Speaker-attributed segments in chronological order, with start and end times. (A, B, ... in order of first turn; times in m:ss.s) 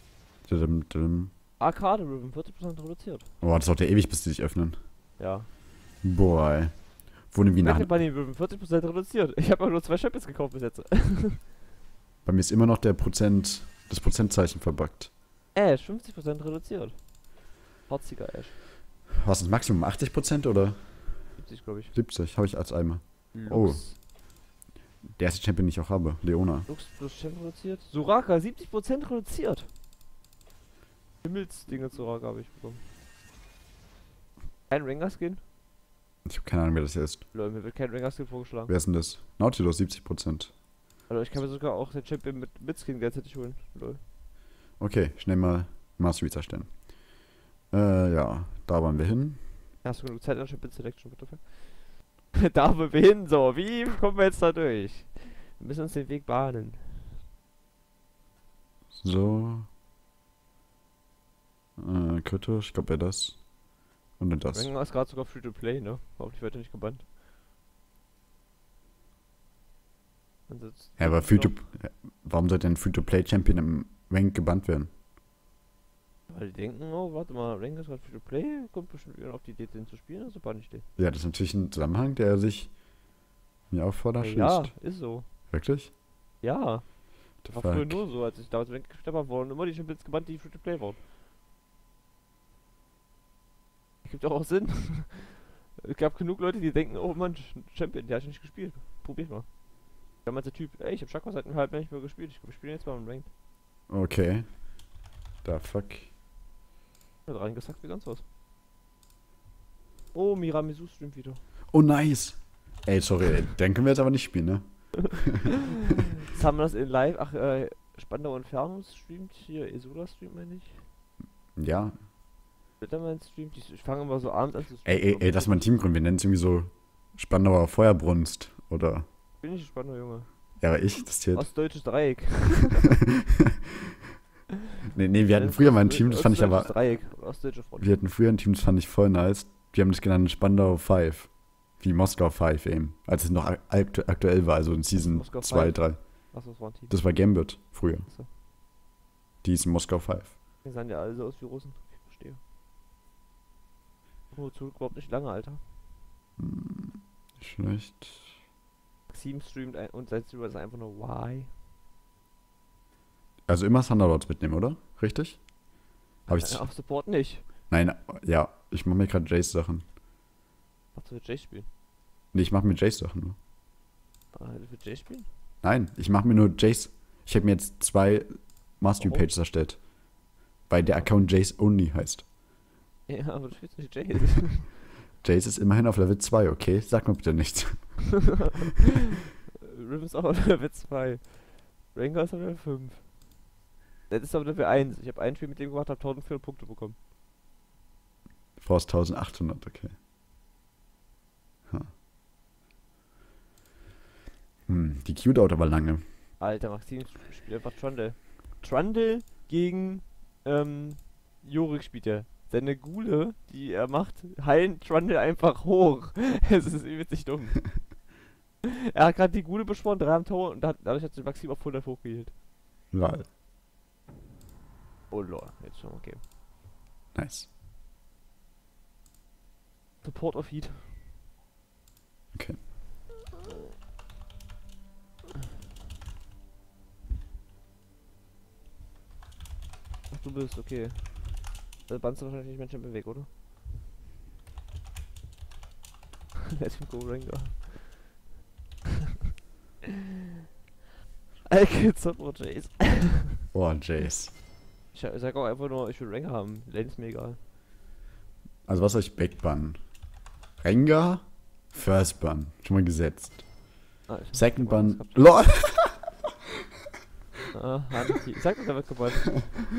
0:00.5-0:01.3 A
0:01.6-0:03.3 B
0:03.4-0:04.8 A
0:05.2-0:05.5 B
0:06.0-0:07.9 A
0:07.6-0:11.5 B
0:12.2-0:15.1 A
0:15.5-0:18.6 B
0:19.1-0:21.4 A
0:21.4-0:22.0 B
0:21.9-0:24.0 A
0:23.3-0:24.0 B
0:25.2-0:26.7 A
0:26.7-0:29.7 B
0:31.2-0:32.8 B
0:34.7-0:35.4 B
0:36.2-0:37.3 A
0:37.3-0:38.7 B
0:38.7-0:40.5 A
0:41.1-0:44.0 B
0:44.8-0:47.2 A
0:47.7-0:49.5 A
0:49.8-0:57.2 B
0:59.0-0:59.7 A
1:01.8-1:03.6 A
1:04.2-1:04.7 A
1:04.5-1:07.1 B
1:10.5-1:11.6 B
1:11.0-1:14.9 A
1:16.3-1:20.9 B
1:21.0-1:22.8 A
1:23.7-1:24.8 A
1:24.2-1:25.3 B
1:25.5-1:25.9 A
1:26.4-1:31.0 B
1:27.4-1:28.0 A
1:34.0-1:43.3 B
1:43.9-1:44.8 A
1:45.4-1:46.1 A
1:47.3-1:48.2 B
1:50.1-1:51.4 B
1:51.7-1:55.6 A
1:56.2-2:00.9 B
2:01.6-2:02.0 A
2:02.8-2:05.7 B
2:04.8-2:09.1 A
2:09.4-2:10.3 B
2:10.6-2:11.5 A
2:11.3-2:13.0 B
2:14.9-2:16.8 A
2:15.3-2:17.9 B
2:17.8-2:26.3 A
2:25.0-2:27.0 B
2:26.9-2:28.1 A
2:29.4-2:30.4 A
2:30.6-2:32.4 B
2:34.3-2:35.6 B
2:36.4-2:38.4 A
2:39.1-2:41.5 B
2:43.5-2:45.5 A
2:46.3-2:46.6 A
2:46.3-2:47.5 B
2:47.7-2:49.9 A
2:50.9-2:51.7 B
2:52.3-2:53.4 A
2:54.3-2:55.3 B
2:55.6-3:02.3 A
2:59.0-2:59.3 B
3:00.9-3:01.1 B
3:03.1-3:04.8 B
3:05.2-3:08.5 A
3:09.5-3:13.2 B
3:14.1-3:17.0 B
3:18.6-3:20.0 A
3:24.7-3:26.0 A
3:26.4-3:38.0 B
3:38.8-3:42.3 B
3:42.9-3:43.3 A
3:45.1-3:46.2 B
3:47.1-3:47.5 A
3:50.0-3:51.1 B
3:52.3-3:52.6 A
3:53.4-3:53.8 B
4:00.1-4:03.3 B
4:06.5-4:08.2 B
4:11.4-4:13.4 B
4:13.5-4:14.3 A
4:14.9-4:17.4 B
4:18.7-4:20.0 A
4:20.6-4:23.7 A
4:24.1-4:25.3 B
4:24.3-4:26.2 A
4:27.5-4:29.5 B